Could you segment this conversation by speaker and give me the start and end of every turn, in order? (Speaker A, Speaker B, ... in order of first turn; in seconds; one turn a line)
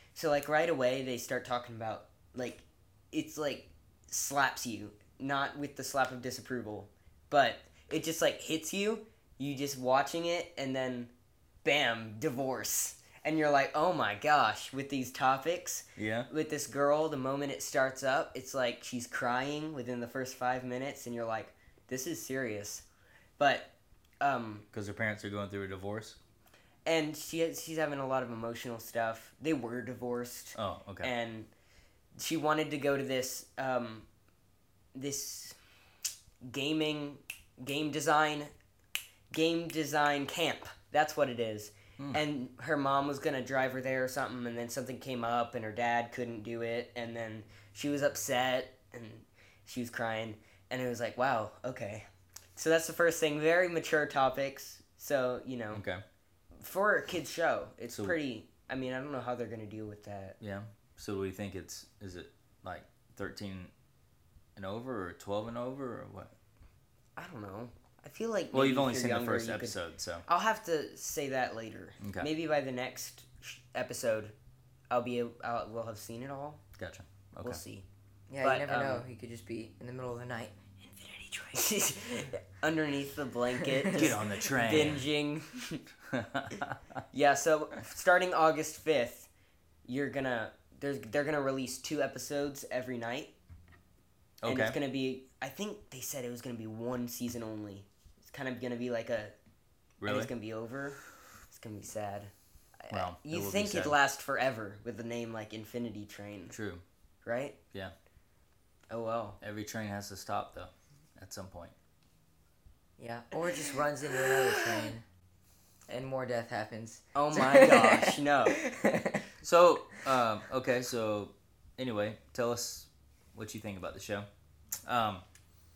Speaker A: 0.1-11.1
Speaker A: 11.6-22.8
Speaker B: 16.0-16.3
Speaker A: 23.4-23.7
Speaker A: 24.2-24.7
Speaker B: 24.7-26.2
Speaker A: 26.9-31.5
Speaker B: 30.6-31.1
Speaker A: 32.2-34.1
Speaker A: 35.0-35.6
Speaker A: 36.4-38.5
Speaker A: 39.3-55.8
Speaker B: 55.7-56.0
Speaker A: 56.6-60.4
Speaker B: 57.9-58.2
Speaker B: 60.4-63.7
Speaker B: 64.6-66.3
Speaker A: 67.2-74.3
Speaker B: 68.5-70.2
Speaker B: 72.0-72.3
Speaker A: 74.9-76.6
Speaker B: 76.8-77.6
Speaker A: 77.4-77.8
Speaker C: 78.3-80.6
Speaker A: 78.4-79.0
Speaker A: 80.9-85.8
Speaker C: 83.8-84.1
Speaker B: 83.9-85.1
Speaker B: 86.1-86.8
Speaker A: 87.1-89.3
Speaker A: 89.9-93.3
Speaker B: 94.4-94.8
Speaker A: 94.5-99.3
Speaker B: 100.0-100.3
Speaker A: 100.0-106.5
Speaker B: 102.9-104.0
Speaker B: 106.5-106.8
Speaker A: 107.2-107.6
Speaker A: 108.9-109.4
Speaker B: 109.4-111.7
Speaker C: 113.0-115.0
Speaker C: 115.9-119.3
Speaker A: 117.2-118.6
Speaker B: 119.4-124.3
Speaker B: 124.8-125.2